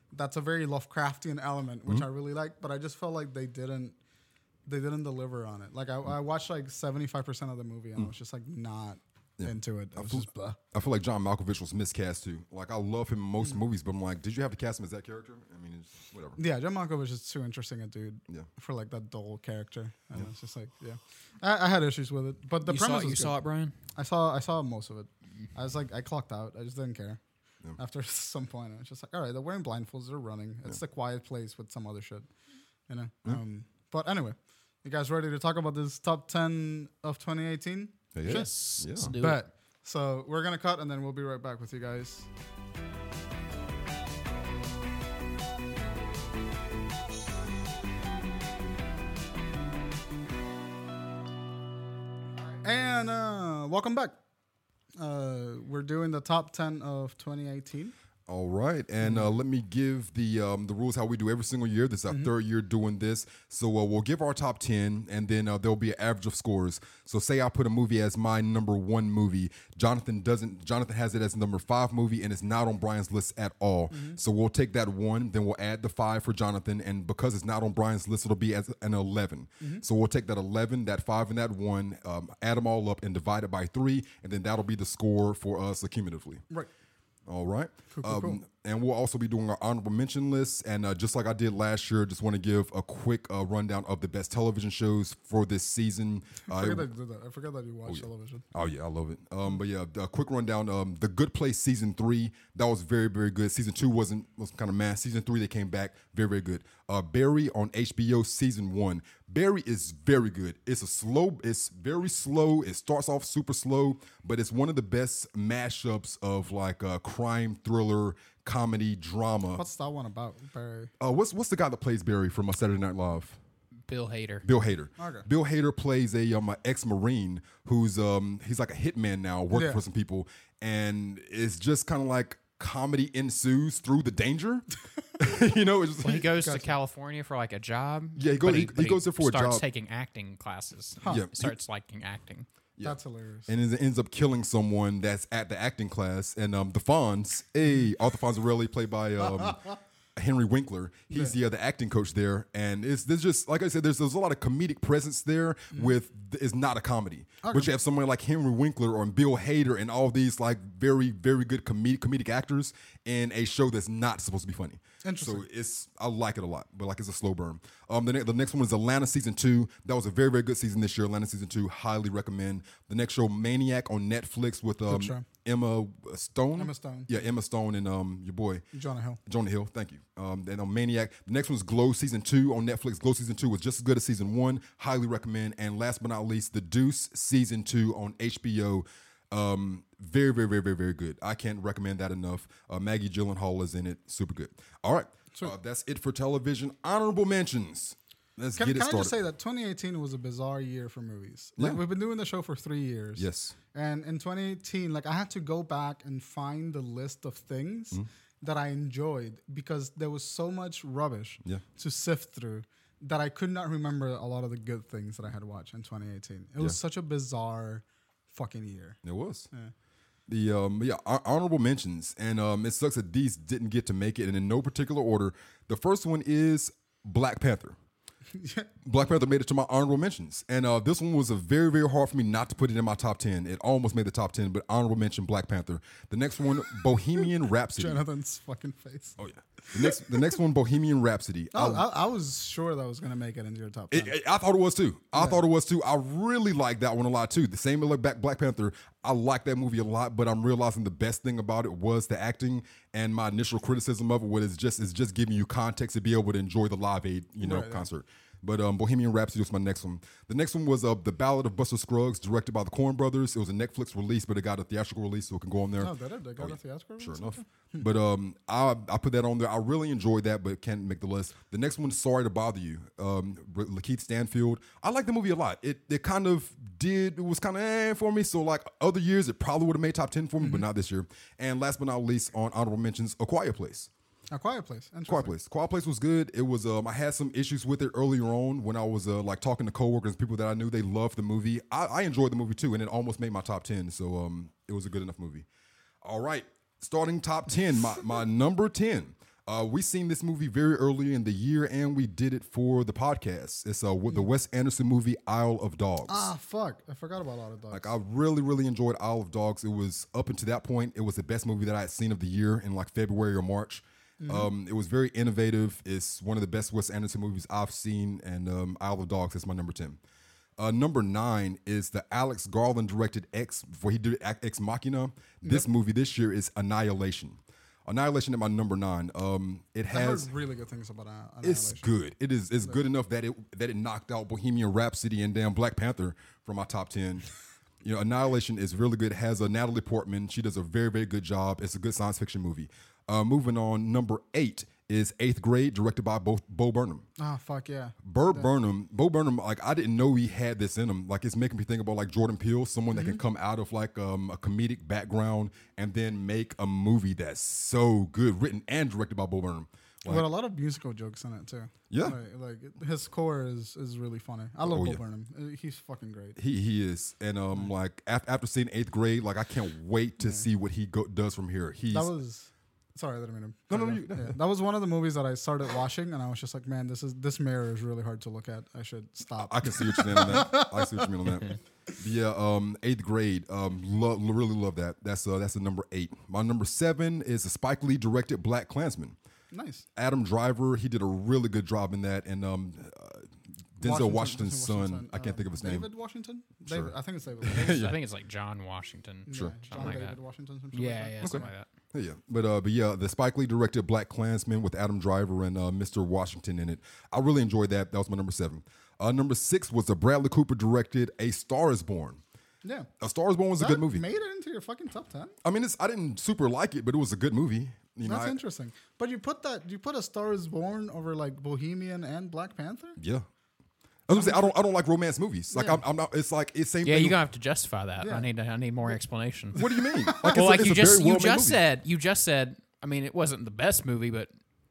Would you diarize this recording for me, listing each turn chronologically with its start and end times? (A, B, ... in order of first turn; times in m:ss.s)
0:00.1-0:04.0 A
0:04.6-0:10.6 A
0:09.4-0:16.4 B
0:16.4-0:23.3 A
0:22.6-0:23.7 C
0:24.0-0:27.2 A
0:27.8-0:32.3 A
0:32.9-0:42.3 A
0:38.1-0:39.1 B
0:38.2-0:39.4 C
0:52.6-0:54.2 A
0:55.0-0:57.9 A
0:58.3-1:26.4 B
0:59.0-0:59.3 A
1:13.9-1:14.2 A
1:27.3-1:36.9 B
1:27.9-1:28.4 A
1:36.5-1:38.4 A
1:37.9-1:59.6 B
1:59.5-2:00.9 A
2:01.0-2:03.4 B
2:03.9-2:04.4 C
2:04.4-2:14.6 B
2:05.0-2:05.3 A
2:09.5-2:09.8 A
2:15.2-2:16.3 B
2:16.0-2:22.5 C
2:16.2-2:16.7 A
2:18.2-2:19.6 B
2:21.0-2:21.5 B
2:22.8-2:58.6 B
2:22.8-2:23.5 A
2:29.3-2:29.7 A
2:31.1-2:31.4 A
2:37.4-2:37.7 A
2:45.0-2:45.4 A
2:54.9-2:55.2 A
2:56.6-2:57.1 A
2:58.7-2:59.2 A
2:59.2-3:19.1 B
3:18.6-3:39.0 A
3:23.2-3:23.5 B
3:39.0-3:39.5 B
3:40.3-3:47.8 B
3:48.3-3:48.7 A
3:48.8-3:58.0 B
3:57.2-3:59.2 A
3:59.2-4:01.8 B
3:59.7-4:00.3 A
4:01.5-4:04.2 A
4:03.9-4:43.9 B
4:05.2-4:05.4 A
4:17.4-4:17.9 A
4:25.8-4:27.8 A
4:40.4-4:40.6 A
4:44.3-4:45.3 A
4:45.1-4:55.4 B
4:56.0-5:06.3 B
5:06.1-5:07.9 A
5:07.7-5:20.0 B
5:14.2-5:14.5 A
5:20.6-5:30.3 B
5:29.9-5:31.9 A
5:31.4-5:37.2 B
5:37.8-5:47.0 B
5:47.2-5:48.5 A
5:48.0-6:00.2 B
5:52.9-5:53.2 A
6:00.0-6:06.4 A
6:01.9-6:02.2 B
6:04.6-6:05.0 B
6:06.4-6:12.1 B
6:10.2-6:10.4 A
6:11.9-6:21.4 A
6:13.7-6:14.4 B
6:19.4-6:29.2 B
6:29.5-6:29.8 A
6:30.0-6:35.9 B
6:33.8-6:37.9 A
6:36.6-6:38.0 B
6:37.6-6:40.2 C
6:39.3-6:41.5 A
6:39.3-6:40.0 B
6:40.7-6:41.7 C
6:41.2-6:52.2 B
6:52.6-6:52.9 A
6:53.0-6:54.0 B
6:53.6-6:55.3 A
6:55.4-6:58.4 B
6:58.0-7:03.0 A
7:03.0-7:03.3 B
7:04.1-7:07.2 B
7:04.1-7:04.5 A
7:05.5-7:05.8 A
7:06.8-7:09.6 C
7:08.0-7:08.3 A
7:09.5-7:10.5 A
7:09.5-7:11.6 B
7:10.2-7:14.3 C